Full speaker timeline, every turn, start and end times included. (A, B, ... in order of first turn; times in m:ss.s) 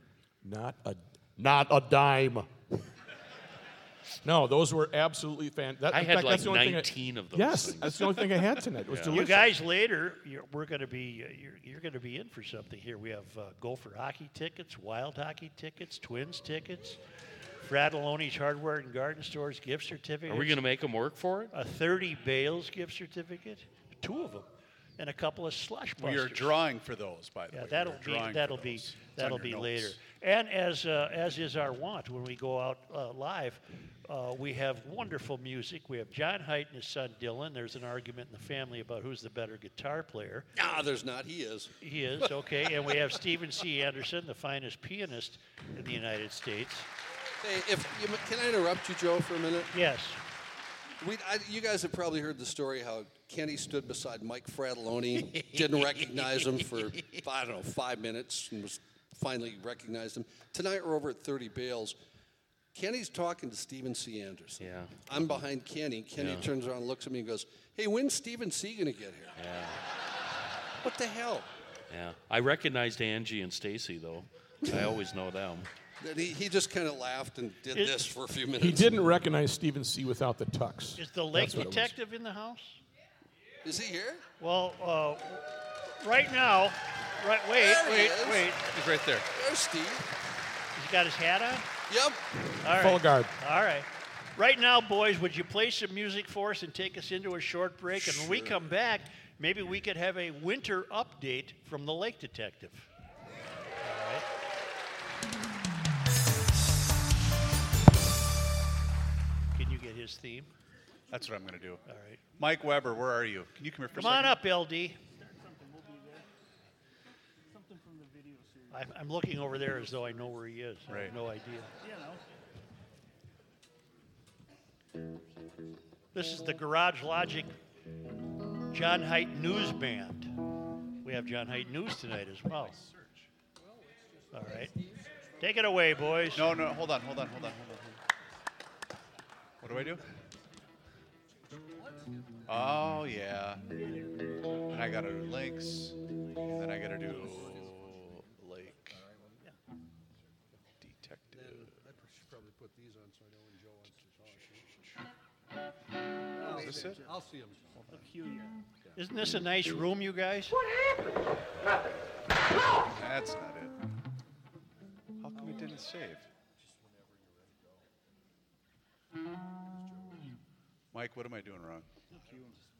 0:00.4-0:02.5 A
0:04.2-0:09.5 A
0:05.9-0:08.1 B
0:08.9-0:09.2 B
0:09.1-0:17.0 C
0:17.6-0:20.6 C
0:20.3-0:21.5 B
0:21.5-0:24.5 C
0:25.0-0:26.6 C
0:26.0-0:30.0 D
0:27.5-0:40.5 C
0:40.6-0:41.7 E
0:41.8-0:46.9 C
0:47.4-0:49.7 E
0:49.7-0:50.2 C
0:51.0-1:02.0 E
1:02.7-1:09.3 E
1:04.6-1:04.9 B
1:06.2-1:06.5 B
1:09.4-1:09.8 B
1:10.8-1:11.5 E
1:11.9-1:15.7 B
1:16.0-1:19.0 E
1:17.7-1:18.0 C
1:18.6-1:21.9 A
1:21.0-1:22.8 C
1:23.6-1:24.2 E
1:24.4-1:25.4 C
1:26.0-1:28.6 C
1:27.6-1:28.5 E
1:27.8-1:29.3 D
1:29.3-1:30.0 E
1:30.8-1:31.7 C
1:31.9-1:32.2 E
1:32.6-1:42.9 C
1:32.8-1:33.3 A
1:38.0-1:38.6 E
1:43.8-1:44.2 C
1:49.5-1:50.5 C
1:51.1-1:51.8 D
1:51.9-1:52.2 C
1:52.4-1:54.4 D
1:53.9-1:55.0 C
1:58.7-2:01.7 C
2:00.9-2:01.1 D
2:06.1-2:07.5 C
2:08.7-2:10.3 C
2:11.0-2:12.8 C
2:12.6-2:13.3 D
2:14.3-2:14.7 C
2:15.4-2:16.4 C
2:16.3-2:18.0 D
2:19.6-2:20.0 D
2:22.5-2:23.6 D
2:24.7-2:26.0 D
2:26.5-2:29.0 D
2:30.8-2:31.8 D
2:34.6-2:34.9 D
2:36.5-2:37.1 D
2:39.0-2:40.6 C
2:43.0-2:43.8 D
2:45.2-2:46.3 D
2:50.9-2:51.8 D